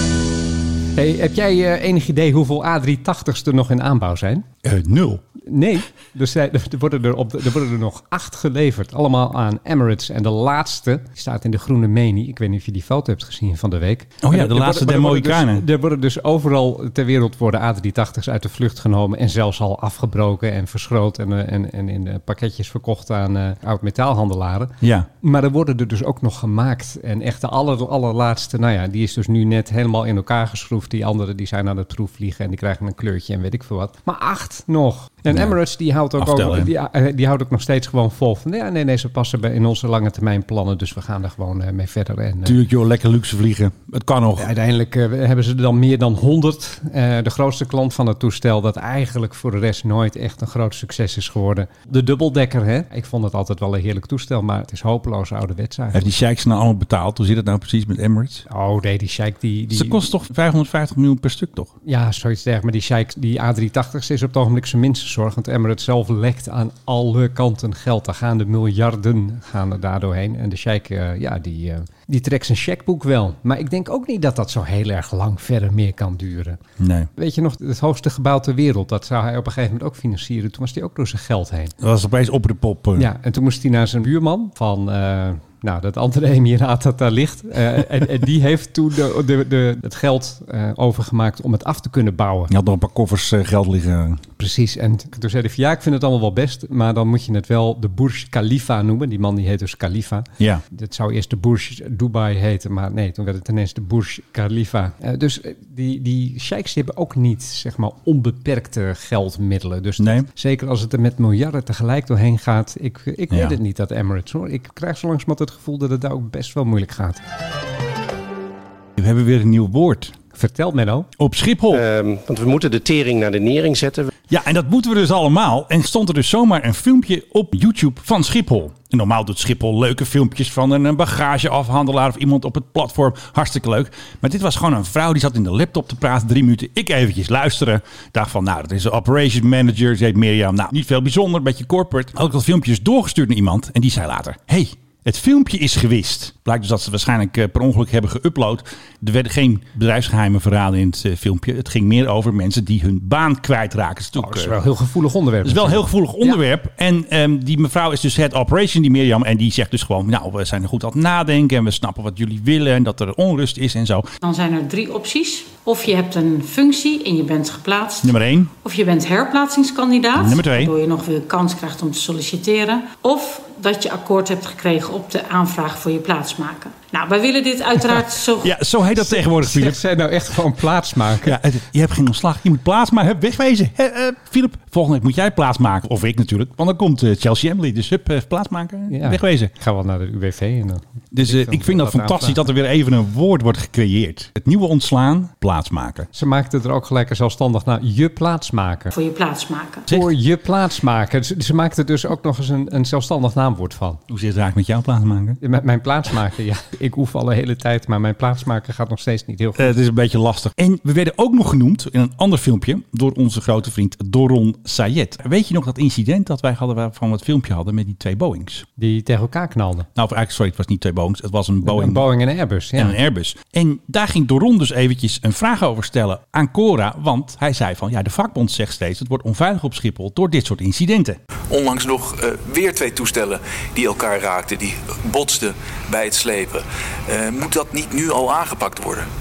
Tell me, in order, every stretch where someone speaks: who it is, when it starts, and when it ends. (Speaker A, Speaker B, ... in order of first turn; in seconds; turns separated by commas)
Speaker A: 0.9-4.5, Speaker B: 4.6-5.2, Speaker A: 5.4-42.6, Speaker B: 14.2-15.6, Speaker B: 24.8-25.1, Speaker B: 36.2-36.7, Speaker B: 42.4-44.5, Speaker A: 44.4-56.1, Speaker B: 55.9-58.5, Speaker A: 58.5-60.0, Speaker B: 59.7-61.7, Speaker A: 61.8-76.6, Speaker B: 76.8-77.1, Speaker A: 77.1-81.7, Speaker B: 81.8-83.1, Speaker A: 83.0-92.5, Speaker B: 92.5-94.2, Speaker A: 94.4-117.2, Speaker B: 110.0-110.3, Speaker B: 113.3-113.5, Speaker B: 119.0-120.1, Speaker A: 120.3-121.1, Speaker B: 121.2-121.8, Speaker C: 121.7-124.1, Speaker B: 124.3-154.5, Speaker A: 154.2-156.4, Speaker B: 155.4-164.1, Speaker D: 164.2-168.1, Speaker B: 168.0-168.5, Speaker D: 168.6-178.5, Speaker B: 170.1-170.7, Speaker B: 178.4-179.8, Speaker A: 178.9-181.4, Speaker B: 181.2-189.5, Speaker A: 188.9-192.4, Speaker B: 191.1-196.1, Speaker A: 196.1-198.9, Speaker D: 198.9-199.8, Speaker B: 199.9-200.1, Speaker A: 199.9-204.0, Speaker B: 204.1-205.4, Speaker A: 205.4-209.7, Speaker B: 209.6-218.7, Speaker A: 218.8-219.9, Speaker B: 219.9-222.1, Speaker A: 221.6-223.0, Speaker B: 222.7-231.2, Speaker E: 231.5-239.1